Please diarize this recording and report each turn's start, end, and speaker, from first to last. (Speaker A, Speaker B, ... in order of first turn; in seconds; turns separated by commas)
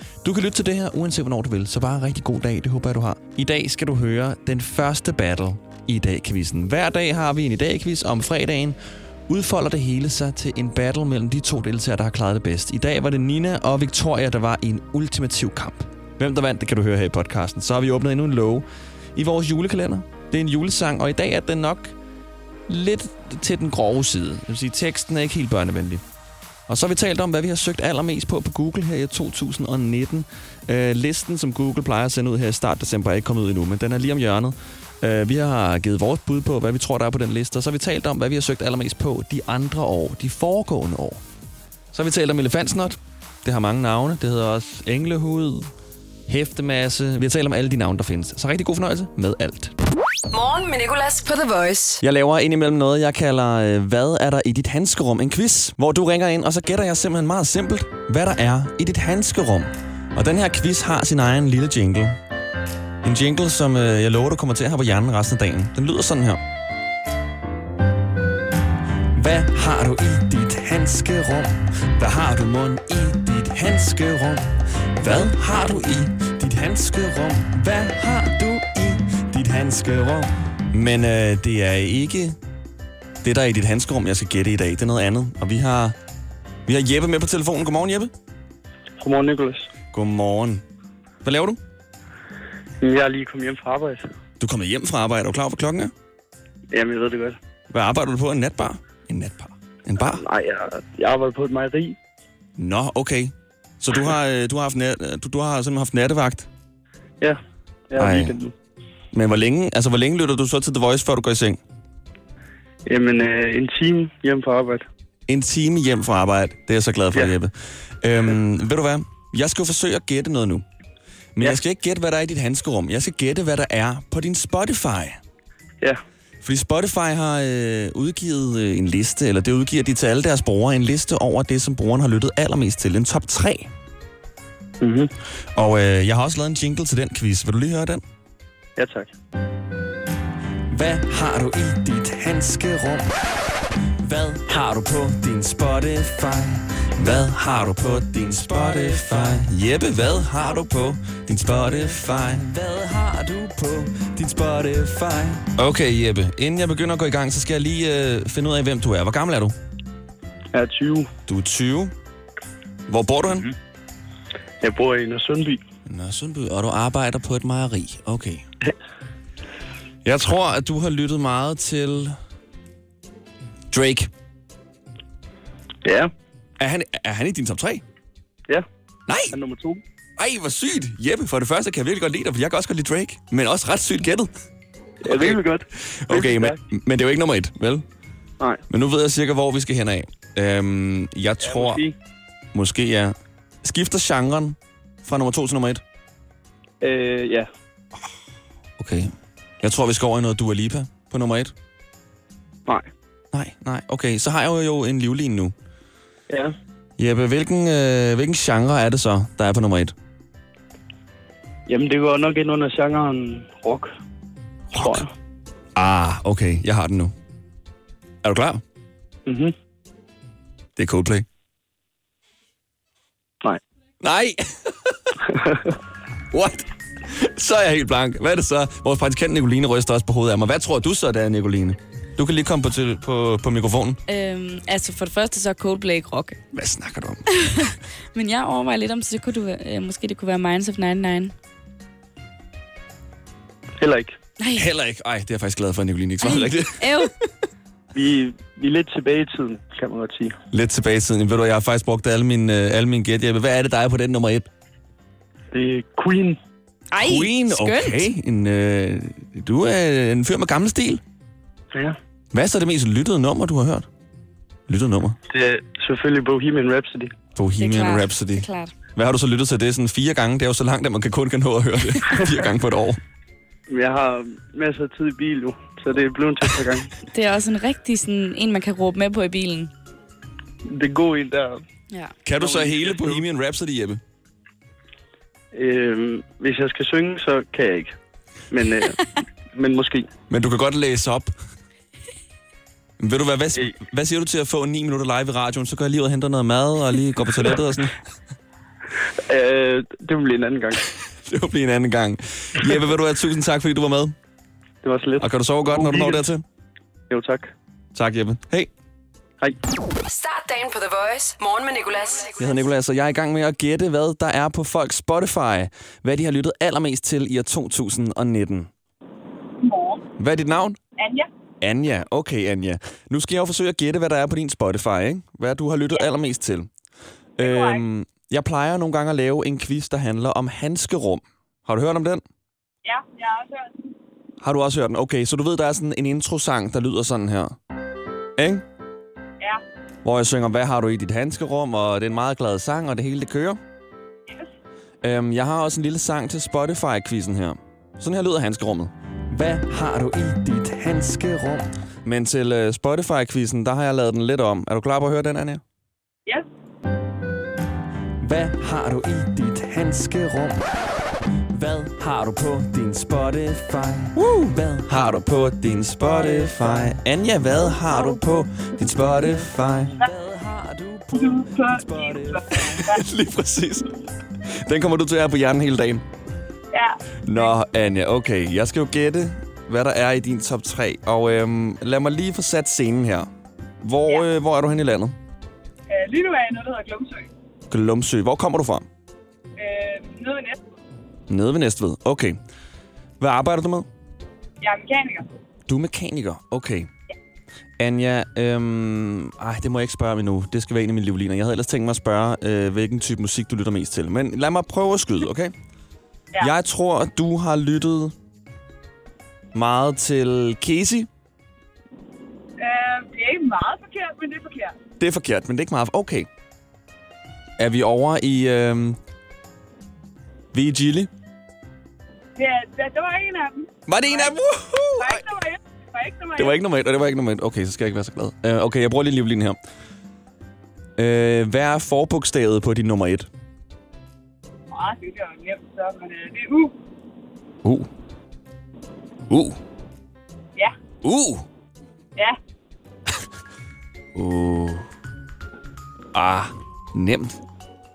Speaker A: 0.2-8.8, Speaker A: 9.3-21.9, Speaker A: 22.7-26.0, Speaker A: 26.7-41.2, Speaker A: 41.9-45.7, Speaker A: 46.3-49.7, Speaker B: 50.3-52.0, Speaker A: 52.0-62.2, Speaker A: 63.0-66.4, Speaker A: 69.1-82.4, Speaker A: 83.2-86.0, Speaker A: 86.7-88.1, Speaker C: 89.0-89.7, Speaker A: 89.9-90.6, Speaker A: 91.2-91.6, Speaker C: 92.8-94.1, Speaker A: 94.4-95.9, Speaker C: 96.7-97.4, Speaker A: 97.7-100.2, Speaker C: 100.0-102.0, Speaker A: 102.6-106.5, Speaker C: 107.9-108.5, Speaker A: 108.0-108.3, Speaker A: 109.1-111.6, Speaker C: 112.8-114.9, Speaker A: 115.3-120.6, Speaker A: 121.3-125.2, Speaker A: 126.4-133.7, Speaker C: 134.8-135.1, Speaker A: 135.6-138.0, Speaker C: 138.8-139.1, Speaker A: 140.7-143.1, Speaker A: 144.0-159.5, Speaker C: 160.5-161.1, Speaker A: 161.3-161.9, Speaker A: 162.9-163.5, Speaker C: 164.6-165.6, Speaker A: 165.8-168.5, Speaker A: 170.0-172.2, Speaker A: 173.7-174.1, Speaker C: 175.8-176.1, Speaker A: 176.6-177.8, Speaker A: 179.1-179.3, Speaker C: 179.3-179.8, Speaker A: 180.2-184.3, Speaker C: 185.0-186.6, Speaker A: 185.1-185.4, Speaker A: 185.9-187.8, Speaker A: 188.7-191.8, Speaker C: 191.4-191.9, Speaker A: 192.5-195.8, Speaker C: 196.8-197.5, Speaker A: 198.8-201.5, Speaker A: 203.3-205.5, Speaker C: 206.3-206.5, Speaker A: 207.0-209.9, Speaker C: 211.7-213.9, Speaker A: 214.7-215.0, Speaker C: 214.8-215.1, Speaker A: 215.8-217.1, Speaker A: 218.2-218.6, Speaker C: 219.3-219.5, Speaker A: 220.8-221.2, Speaker A: 224.0-225.1, Speaker C: 225.3-225.7, Speaker A: 226.3-234.0, Speaker D: 234.1-236.4, Speaker A: 236.5-237.2, Speaker D: 237.3-241.3, Speaker C: 243.8-244.2, Speaker D: 244.4-244.7, Speaker A: 244.5-247.1, Speaker D: 246.2-247.1, Speaker C: 247.9-250.4, Speaker A: 250.5-254.5, Speaker C: 255.5-256.4, Speaker D: 256.9-258.1, Speaker A: 257.0-261.0, Speaker C: 261.7-262.0, Speaker A: 262.3-263.9, Speaker A: 264.7-265.2, Speaker C: 265.3-267.1, Speaker A: 267.4-273.0, Speaker D: 267.6-268.7, Speaker C: 272.1-272.4, Speaker C: 273.7-276.9, Speaker D: 277.1-279.7, Speaker C: 280.6-281.6, Speaker D: 281.9-282.1, Speaker A: 282.2-284.0, Speaker C: 282.4-283.2, Speaker C: 285.5-288.0, Speaker C: 288.5-290.1, Speaker A: 290.3-291.3, Speaker A: 293.0-298.0, Speaker C: 299.3-300.8, Speaker A: 301.2-304.1, Speaker C: 304.8-306.3, Speaker A: 305.2-306.4, Speaker C: 307.1-307.5, Speaker A: 307.9-308.7, Speaker B: 310.0-312.6, Speaker A: 312.4-318.7, Speaker E: 319.6-320.0, Speaker A: 320.2-320.8, Speaker E: 321.0-321.3, Speaker A: 321.6-326.7, Speaker A: 327.4-332.2, Speaker E: 327.4-327.8, Speaker E: 332.8-333.9, Speaker A: 334.4-337.6, Speaker A: 338.4-338.6, Speaker A: 340.0-343.6, Speaker A: 345.0-355.6, Speaker A: 358.2-360.6, Speaker A: 361.5-373.9, Speaker E: 371.1-373.0, Speaker A: 374.4-376.0, Speaker E: 376.7-377.5, Speaker A: 377.2-385.1, Speaker E: 385.9-387.3, Speaker A: 387.7-388.9, Speaker E: 389.6-390.7, Speaker A: 391.3-392.4, Speaker A: 393.2-393.9, Speaker E: 394.6-395.3, Speaker A: 395.7-396.9, Speaker A: 397.8-405.5, Speaker A: 406.4-408.1, Speaker A: 409.5-411.1, Speaker E: 412.6-414.8, Speaker A: 415.0-416.3, Speaker A: 417.6-419.0, Speaker A: 420.5-421.1, Speaker E: 422.4-424.4, Speaker A: 423.9-425.2, Speaker E: 425.0-426.6, Speaker A: 426.4-429.6, Speaker A: 431.0-433.3, Speaker E: 434.7-436.7, Speaker A: 437.6-437.9, Speaker A: 439.3-439.6, Speaker A: 441.0-441.4, Speaker A: 444.1-444.9, Speaker A: 446.1-447.4